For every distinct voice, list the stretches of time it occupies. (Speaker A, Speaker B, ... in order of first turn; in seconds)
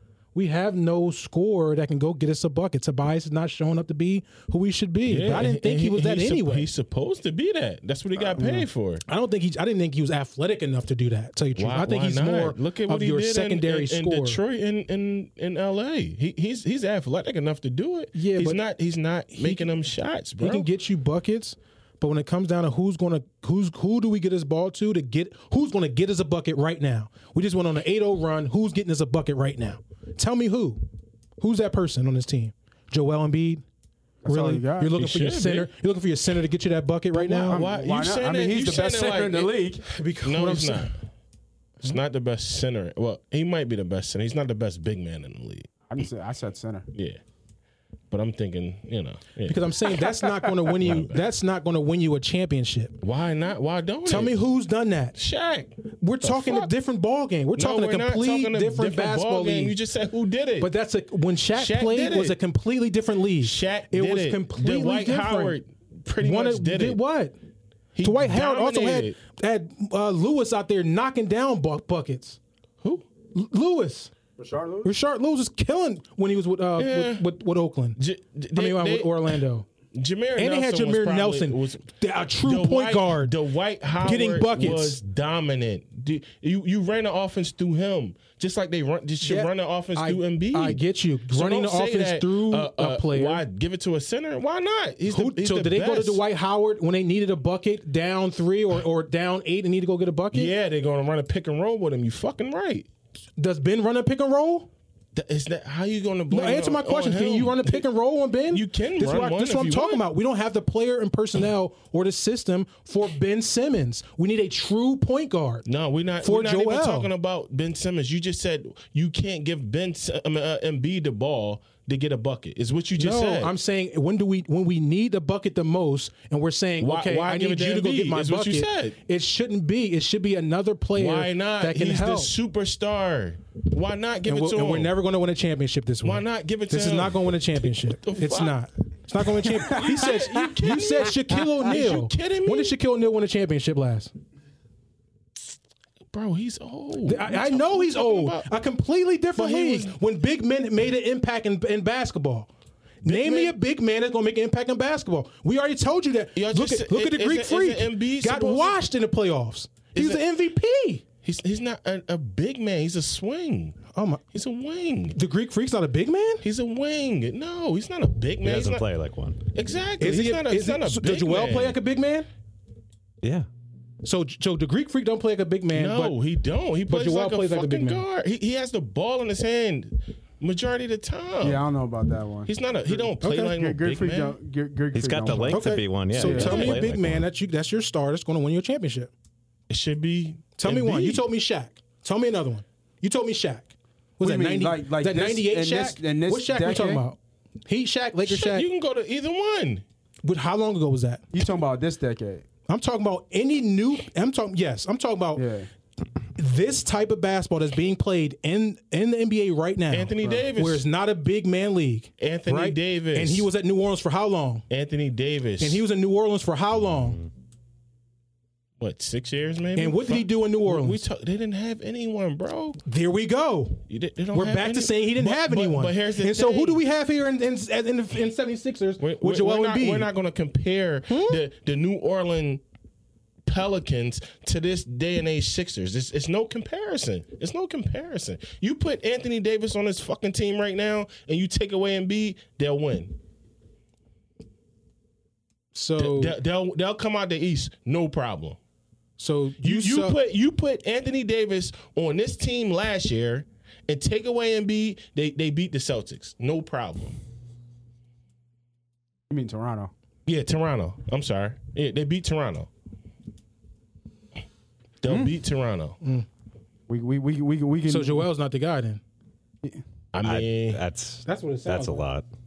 Speaker A: 0.3-6.7, 9.1-14.4, 18.1-18.6, 19.4-19.7, 20.4-30.9, 31.4-33.6, 34.3-37.6, 39.9-40.9, 49.5-53.0, 54.1-55.1, 56.0-59.8, 60.6-65.6, 66.2-67.3, 68.0-72.4, 73.3-74.1, 74.8-78.0, 78.5-79.7, 80.4-83.3, 84.0-85.0, 89.2-93.5, 95.1-100.5, 103.4-104.7, 106.3-115.7, 116.2-117.1, 123.0-132.3, 134.2-144.1, 147.1-152.5, 153.0-161.0, 163.9-164.2, 165.1-166.4, 170.0-172.3, 174.0-176.2, 176.9-178.1, 183.2-183.5, 185.5-189.1, 190.6-198.7, 200.2-201.2, 202.7-205.5, 206.4-214.7, 215.6-217.2, 219.8-221.0, 222.9-230.1, 231.1-231.4, 245.7-246.4, 249.2-250.2, 267.9-269.0, 271.2-272.1
Speaker B: 5.1-9.0, 11.6-20.7, 35.0-35.7, 37.3-39.6, 40.2-41.0, 41.8-45.7, 46.9-47.2, 48.1-49.7, 50.8-51.2, 53.0-54.4, 55.2-56.7, 57.6-60.7, 61.5-62.4, 63.4-67.0, 68.0-69.2, 76.8-77.2, 78.0-79.4, 79.9-81.9, 82.4-96.2, 100.3-102.9, 105.1-107.9, 108.5-110.0, 115.7-123.5, 126.8-129.0, 131.0-134.9, 136.0-138.6, 139.7-142.8, 146.1-148.5, 149.4-150.0, 153.0-153.6, 156.4-158.8, 159.9-160.2, 161.2-165.2, 166.4-168.9, 169.5-171.8, 175.7-181.6, 182.5-184.4, 186.5-186.8, 189.7-191.2, 198.3-199.8, 209.9-210.8, 212.2-213.5, 214.7-215.8, 218.8-222.8, 223.9-226.8, 229.0-232.6, 233.5-243.2, 246.0-248.6, 249.6-257.2, 260.3-262.7, 265.0-266.0, 270.1-270.8
Speaker C: 8.4-8.7, 34.2-34.9, 37.2-39.9, 45.9-46.9, 50.2-50.5, 74.4-75.0, 139.6-139.9, 181.4-186.7, 194.2-197.0, 201.3-202.4, 205.4-205.7, 210.2-210.5, 259.3-259.9, 266.9-268.3
Speaker D: 168.4-169.4, 173.2-173.5, 184.9-187.2, 270.2-272.3